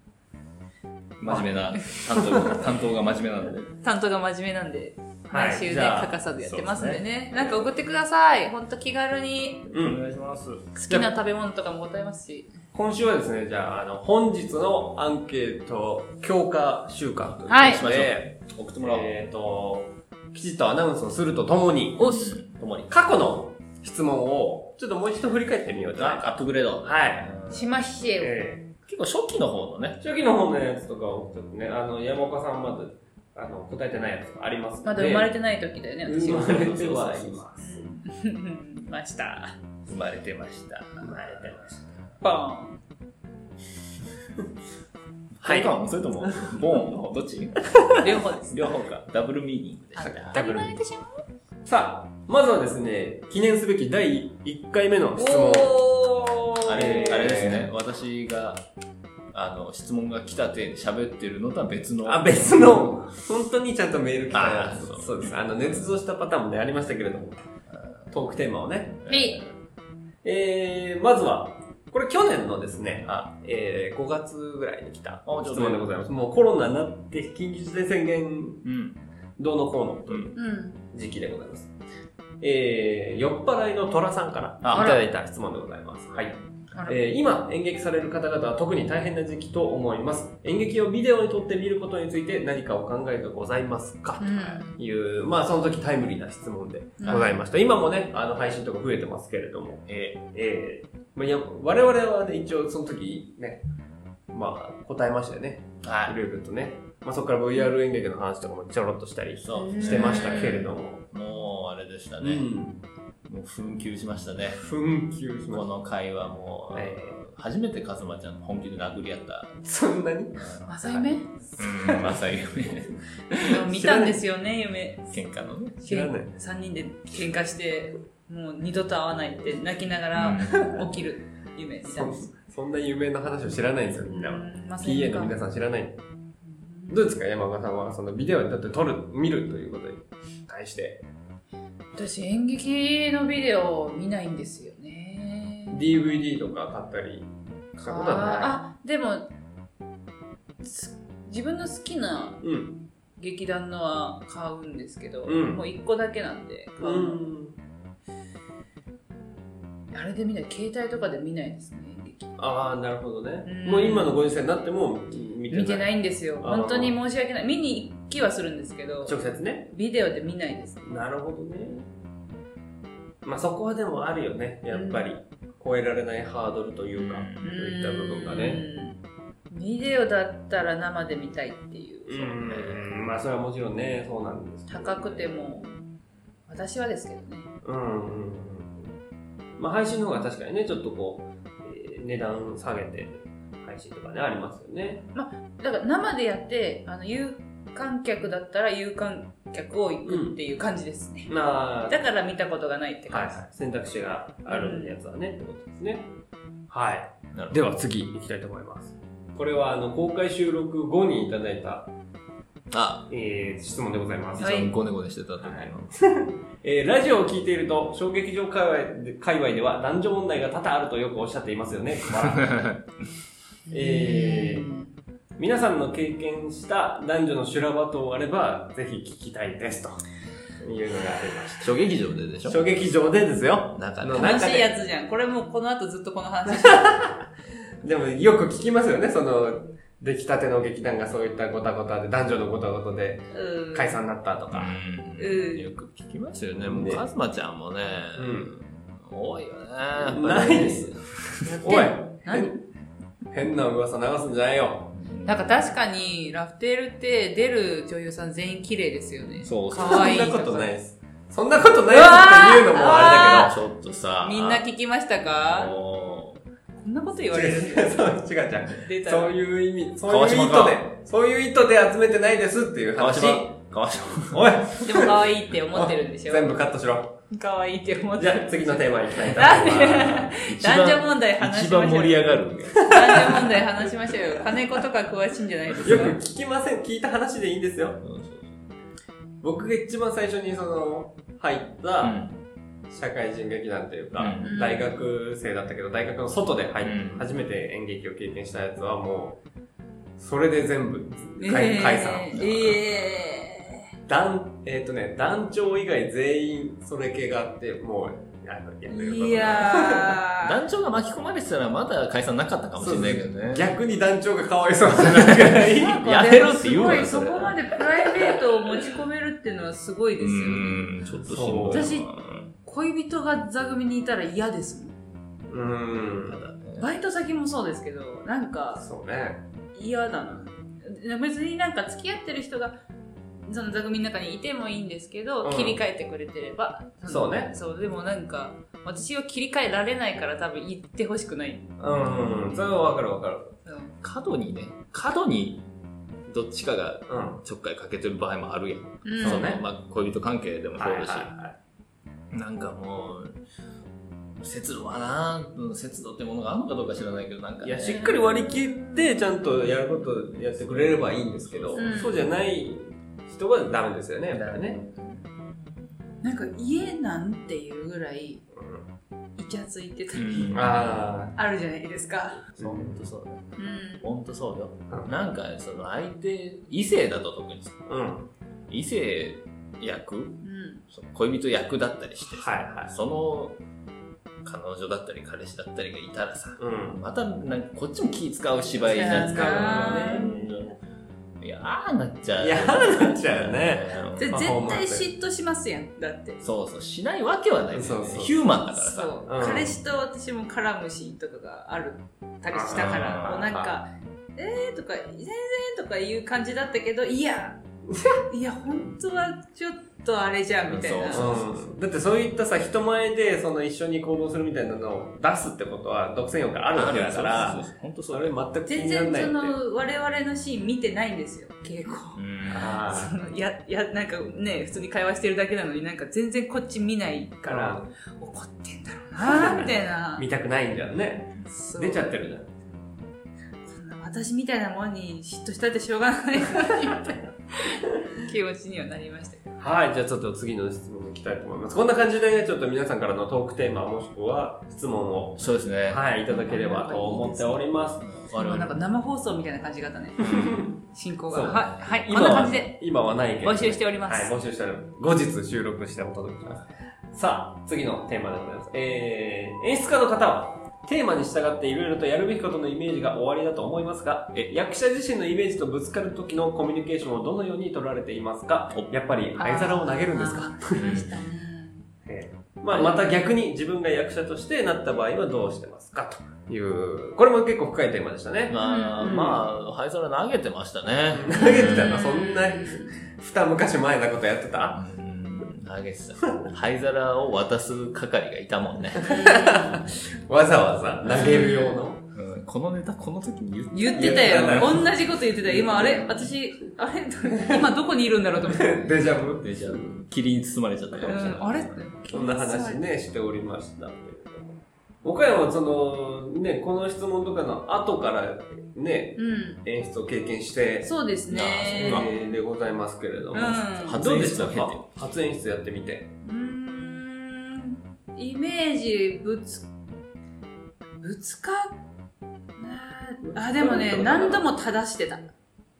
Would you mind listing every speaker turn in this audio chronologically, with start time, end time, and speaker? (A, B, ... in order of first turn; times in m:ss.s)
0:01.2-0:03.7 A
0:02.1-0:02.6 B
0:03.8-0:09.7 C
0:05.3-0:06.2 B
0:06.4-0:07.0 A
0:09.7-0:10.0 B
0:09.7-0:10.7 A
0:10.7-0:12.5 C
0:12.7-0:22.1 B
0:17.5-0:17.8 C
0:17.6-0:19.1 A
0:22.0-0:22.3 C
0:22.0-0:22.9 A
0:22.9-0:27.4 B
0:25.9-0:27.7 A
0:27.5-0:28.4 C
0:28.2-0:28.7 B
0:28.8-0:30.0 A
0:30.0-0:35.3 B
0:34.8-0:36.6 C
0:36.0-0:37.8 B
0:36.2-0:37.4 A
0:37.6-0:39.6 C
0:39.9-0:42.0 A
0:41.0-0:41.8 B
0:42.2-0:42.8 C
0:45.4-0:50.7 A
0:45.4-0:46.7 B
0:48.0-0:48.6 C
0:50.0-0:51.2 C
0:50.2-0:50.7 B
0:51.6-0:55.8 B
0:55.2-0:57.2 C
0:56.6-0:58.6 A
0:56.7-0:57.7 B
0:59.3-1:02.8 A
1:02.0-1:07.4 B
1:04.3-1:05.3 A
1:08.1-1:09.0 B
1:09.0-1:09.5 A
1:09.1-1:09.4 C
1:10.2-1:18.6 B
1:15.2-1:15.9 A
1:18.6-1:19.0 A
1:19.4-1:21.7 B
1:20.1-1:20.3 A
1:20.3-1:20.8 C
1:22.4-1:43.6 B
1:24.6-1:25.0 A
1:24.7-1:25.0 C
1:26.7-1:27.0 C
1:34.2-1:34.8 C
1:37.0-1:37.4 C
1:39.9-1:40.2 A
1:44.3-1:51.0 B
1:45.8-1:46.2 A
1:49.4-1:52.5 A
1:49.5-1:50.7 C
1:52.2-1:52.8 B
1:53.3-1:54.6 A
1:54.6-1:55.7 B
1:55.5-1:59.6 A
1:56.7-1:57.2 B
1:59.6-2:00.5 B
2:00.3-2:03.6 A
2:00.7-2:01.3 C
2:01.8-2:02.2 B
2:03.4-2:05.1 C
2:03.7-2:04.2 B
2:05.1-2:05.8 A
2:05.8-2:12.3 C
2:05.8-2:06.3 B
2:10.1-2:10.7 A
2:11.8-2:16.0 B
2:14.1-2:15.4 C
2:16.4-2:17.0 C
2:16.9-2:21.0 B
2:21.9-2:25.9 C
2:25.7-2:28.6 B
2:27.9-2:29.3 C
2:30.6-2:32.4 C
2:32.4-2:32.8 B
2:33.2-2:37.3 C
2:35.2-2:35.6 B
2:36.8-2:37.6 B
2:39.9-2:42.3 C
2:42.4-2:47.0 B
2:43.4-2:44.2 C
2:45.5-2:50.8 C
2:49.0-2:49.7 B
2:50.8-2:51.9 B
2:53.2-2:58.7 B
2:54.7-2:55.0 C
2:56.9-2:57.5 A
2:57.4-2:59.0 C
2:59.5-3:02.4 C
3:02.1-3:05.7 B
3:02.4-3:03.0 A
3:04.7-3:05.8 C
3:06.5-3:07.5 C
3:07.6-3:08.9 B
3:09.6-3:15.1 B
3:15.1-3:21.3 C
3:20.1-3:20.4 B
3:21.3-3:22.0 B
3:21.9-3:23.4 C
3:23.1-3:26.1 B
3:24.5-3:25.0 C
3:26.7-3:31.9 B
3:27.3-3:27.6 A
3:32.7-3:33.1 A
3:33.1-3:34.7 B
3:34.4-3:35.9 A
3:34.4-3:34.7 C
3:35.4-3:42.6 B
3:42.2-3:42.9 A
3:43.7-3:44.9 C
3:43.7-3:44.7 B
3:45.4-3:50.0 B
3:50.6-3:51.7 B
3:51.6-3:52.6 A
3:52.4-3:54.7 B
3:53.7-3:54.3 A
3:54.2-3:57.0 C
3:56.5-3:57.3 B
3:57.8-4:04.8 B
4:03.3-4:04.0 C
4:04.5-4:11.5 A
4:05.2-4:05.7 C
4:06.6-4:07.0 B
4:08.1-4:08.5 B
4:10.1-4:12.6 B
4:11.6-4:12.6 C
4:13.3-4:14.9 B
4:14.9-4:15.7 A
4:15.2-4:20.8 C
4:19.4-4:20.2 A
4:19.8-4:23.5 B
4:21.9-4:23.5 C
4:23.1-4:24.6 A
4:24.2-4:25.7 C
4:25.3-4:26.4 A
4:26.8-4:28.1 C
4:27.3-4:33.5 B
4:28.8-4:29.3 C
4:30.0-4:30.8 A
4:32.9-4:34.6 A
4:34.3-4:35.2 B
4:34.8-4:36.6 C
4:35.7-4:37.2 B
4:37.3-4:46.2 C
4:38.2-4:40.3 B
4:39.8-4:43.4 A
4:42.7-4:43.6 B
4:45.8-4:48.0 B
4:48.0-4:48.6 A
4:49.4-4:52.3 B
4:52.0-4:52.4 A
4:52.9-4:59.4 B
4:54.1-4:54.5 A
4:54.4-4:54.9 C
4:56.8-4:57.3 A
5:00.2-5:02.8 B
5:01.4-5:03.9 C
5:02.4-5:02.8 A
5:04.1-5:10.2 B
5:08.9-5:10.6 C
5:10.4-5:13.8 A
5:12.8-5:16.0 B
5:14.9-5:17.8 A
5:15.9-5:20.9 C
5:20.2-5:22.5 A
5:21.2-5:21.9 B
5:21.7-5:22.1 C
5:22.6-5:25.0 C
5:25.5-5:26.4 B
5:26.3-5:26.9 A
5:26.8-5:28.9 C
5:28.8-5:29.4 B
5:29.7-5:32.8 C
5:33.5-5:41.7 C
5:35.4-5:35.8 B
5:37.1-5:37.5 B
5:41.8-5:43.5 B
5:42.0-5:42.6 A
5:43.6-5:43.9 C
5:44.0-5:45.6 A
5:46.2-5:51.3 A
5:47.1-5:47.4 B
5:49.0-5:49.5 C
5:49.2-5:49.6 B
5:50.8-5:51.5 B
5:52.3-5:53.4 A
5:54.4-5:58.2 A
5:57.6-6:04.8 B
5:58.0-5:59.0 C
5:59.8-6:02.0 A
6:01.7-6:02.2 C
6:04.3-6:05.8 A
6:06.2-6:08.4 C
6:08.5-6:08.8 B
6:09.4-6:12.4 C
6:10.1-6:11.1 A
6:10.5-6:11.3 B
6:12.6-6:17.8 A
6:12.6-6:13.0 B
6:13.6-6:14.0 C
6:17.9-6:18.3 B
6:18.7-6:23.6 A
6:20.4-6:20.8 C
6:22.2-6:22.9 B
6:24.4-6:30.7 A
6:26.6-6:27.0 B
6:28.8-6:30.6 B
6:28.9-6:30.4 C
6:31.4-6:34.5 A
6:32.4-6:35.1 B
6:34.2-6:36.4 C
6:36.4-6:39.6 A
6:37.7-6:38.4 B
6:38.7-6:51.3 C
6:39.2-6:39.7 B
6:42.5-6:43.8 B
6:42.7-6:43.5 A
6:50.7-6:51.7 A
6:51.1-6:59.6 B
6:56.7-6:58.4 A
6:58.7-7:10.3 C
7:02.1-7:03.3 A
7:02.5-7:03.2 B
7:07.4-7:07.9 B
7:09.2-7:12.6 B
7:11.4-7:12.3 C
7:13.6-7:19.6 C
7:19.6-7:28.1 B
7:25.4-7:26.0 A
7:26.3-7:27.6 C
7:28.0-7:28.7 A
7:28.3-7:32.8 C
7:30.2-7:50.9 B
7:30.2-7:30.6 A
7:32.2-7:32.5 A
7:33.4-7:34.3 C
7:49.4-7:51.8 C
7:50.7-7:51.1 A
7:52.0-7:59.4 B
7:52.7-7:53.2 C
7:58.5-8:02.0 A
7:58.6-7:59.3 C
8:01.1-8:04.8 B
8:01.4-8:03.0 C
8:04.7-8:09.2 A
8:09.0-8:12.0 B
8:09.0-8:09.9 C
8:11.1-8:11.8 C
8:12.1-8:15.0 A
8:13.7-8:18.9 C
8:13.9-8:16.3 B
8:17.4-8:17.6 B
8:18.4-8:19.9 B
8:19.2-8:21.9 A
8:20.9-8:21.3 B
8:21.1-8:22.8 C
8:22.1-8:31.0 B
8:29.2-8:29.6 C
8:30.8-8:32.2 C
8:31.3-8:32.1 A
8:31.7-8:36.1 B
8:33.3-8:34.0 C
8:33.8-8:34.8 A
8:36.2-8:39.7 C
8:41.0-8:41.8 C
8:42.6-8:45.3 C
8:43.2-8:44.5 B